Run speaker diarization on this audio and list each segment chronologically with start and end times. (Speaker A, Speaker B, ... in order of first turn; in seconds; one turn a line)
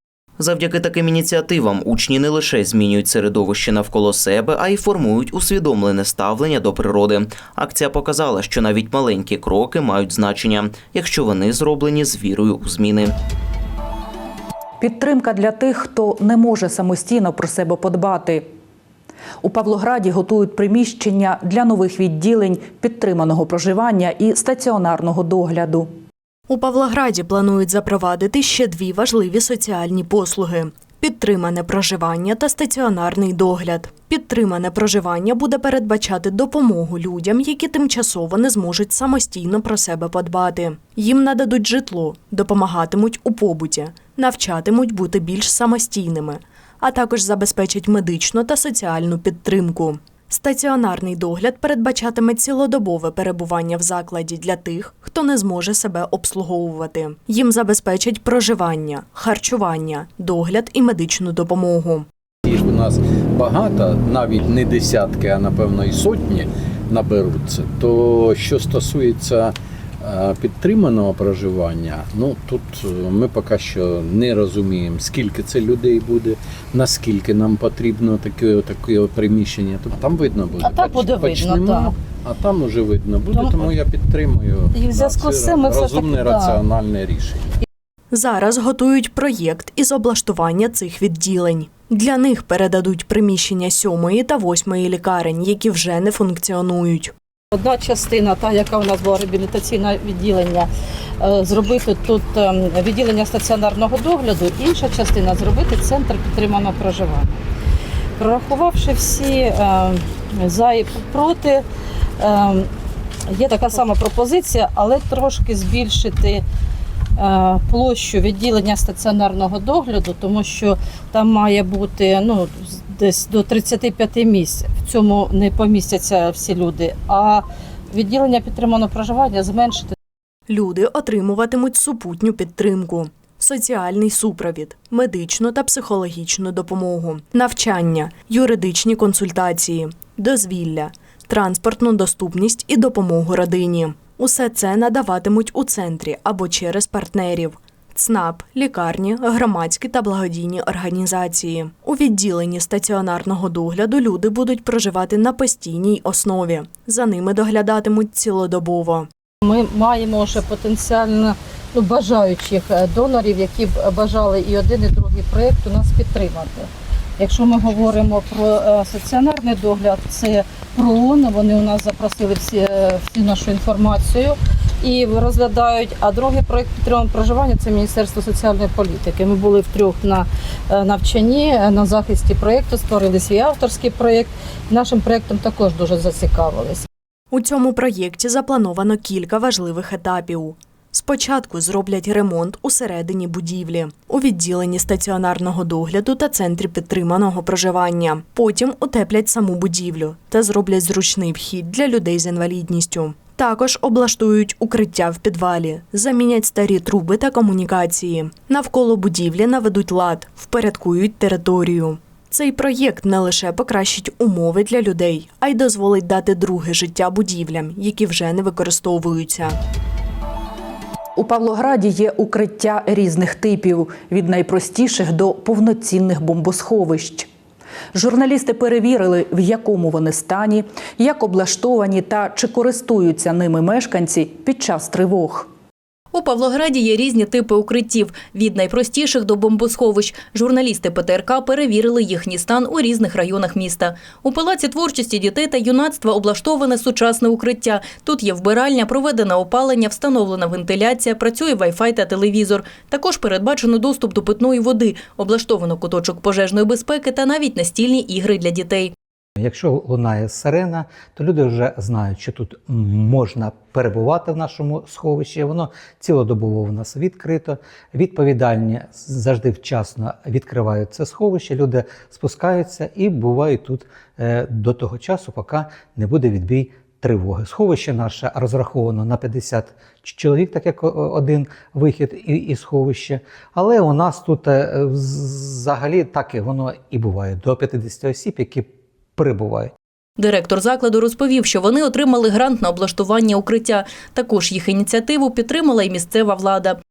Speaker A: 0.4-13.1
Speaker B: 14.8-18.5
Speaker B: 19.4-25.9
Speaker C: 26.5-62.1
Speaker D: 62.5-87.5
Speaker E: 80.6-81.9
Speaker E: 83.3-83.7
Speaker E: 84.7-86.6
Speaker C: 88.1-97.1
Speaker E: 97.5-100.7
Speaker E: 101.2-107.4
Speaker E: 108.2-111.6
Speaker E: 112.2-112.7
Speaker E: 113.3-116.4
Speaker E: 117.2-129.9
Speaker C: 130.5-159.1
Speaker E: 159.4-186.9
Speaker C: 187.3-219.6
Speaker B: 221.2-227.3
Speaker B: 227.9-235.5
Speaker F: 236.1-258.9
Speaker G: 259.4-289.7
Speaker F: 290.2-296.8